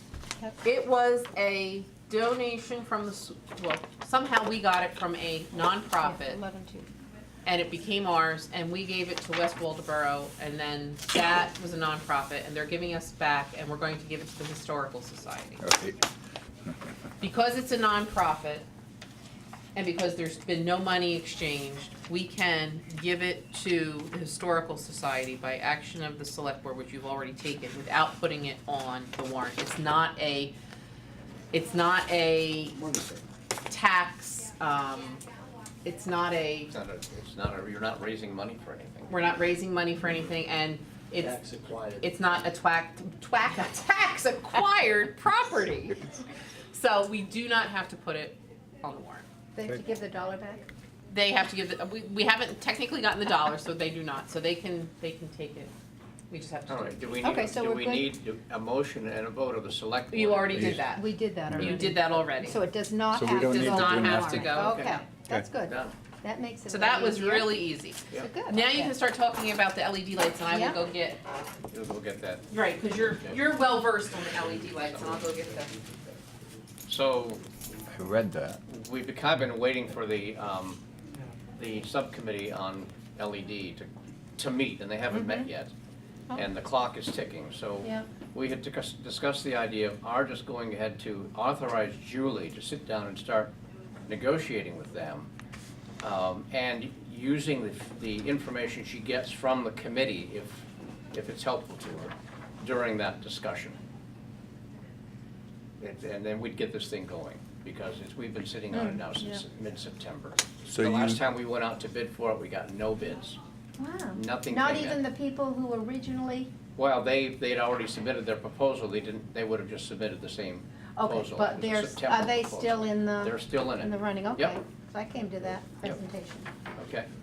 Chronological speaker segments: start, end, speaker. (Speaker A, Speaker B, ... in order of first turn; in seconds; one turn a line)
Speaker A: 0.6-6.4
Speaker B: 6.0-6.9
Speaker A: 7.4-15.6
Speaker C: 15.6-16.0
Speaker A: 17.2-18.7
Speaker A: 19.7-30.5
Speaker A: 31.5-32.8
Speaker A: 33.7-35.2
Speaker A: 35.8-36.7
Speaker D: 36.7-39.1
Speaker A: 39.1-41.4
Speaker D: 41.2-42.0
Speaker A: 42.0-46.2
Speaker A: 46.7-49.2
Speaker B: 49.5-50.6
Speaker A: 51.1-55.7
Speaker A: 56.3-57.0
Speaker D: 56.7-60.8
Speaker B: 57.2-58.1
Speaker A: 60.1-62.6
Speaker C: 60.5-60.8
Speaker B: 60.9-68.9
Speaker C: 61.5-61.9
Speaker C: 63.1-64.7
Speaker A: 63.4-64.9
Speaker D: 64.6-65.0
Speaker D: 65.6-66.0
Speaker A: 66.7-71.2
Speaker B: 70.5-70.8
Speaker D: 71.7-73.4
Speaker A: 72.5-75.8
Speaker D: 74.8-75.1
Speaker D: 76.9-77.4
Speaker C: 77.9-78.6
Speaker D: 78.7-80.8
Speaker D: 81.5-85.7
Speaker B: 85.1-85.5
Speaker D: 86.3-93.5
Speaker D: 94.1-95.3
Speaker D: 96.0-103.8
Speaker D: 105.8-113.4
Speaker B: 108.7-109.4
Speaker C: 110.7-111.2
Speaker B: 113.8-116.5
Speaker D: 114.1-115.0
Speaker D: 116.8-124.6
Speaker B: 121.0-126.5
Speaker D: 126.8-127.1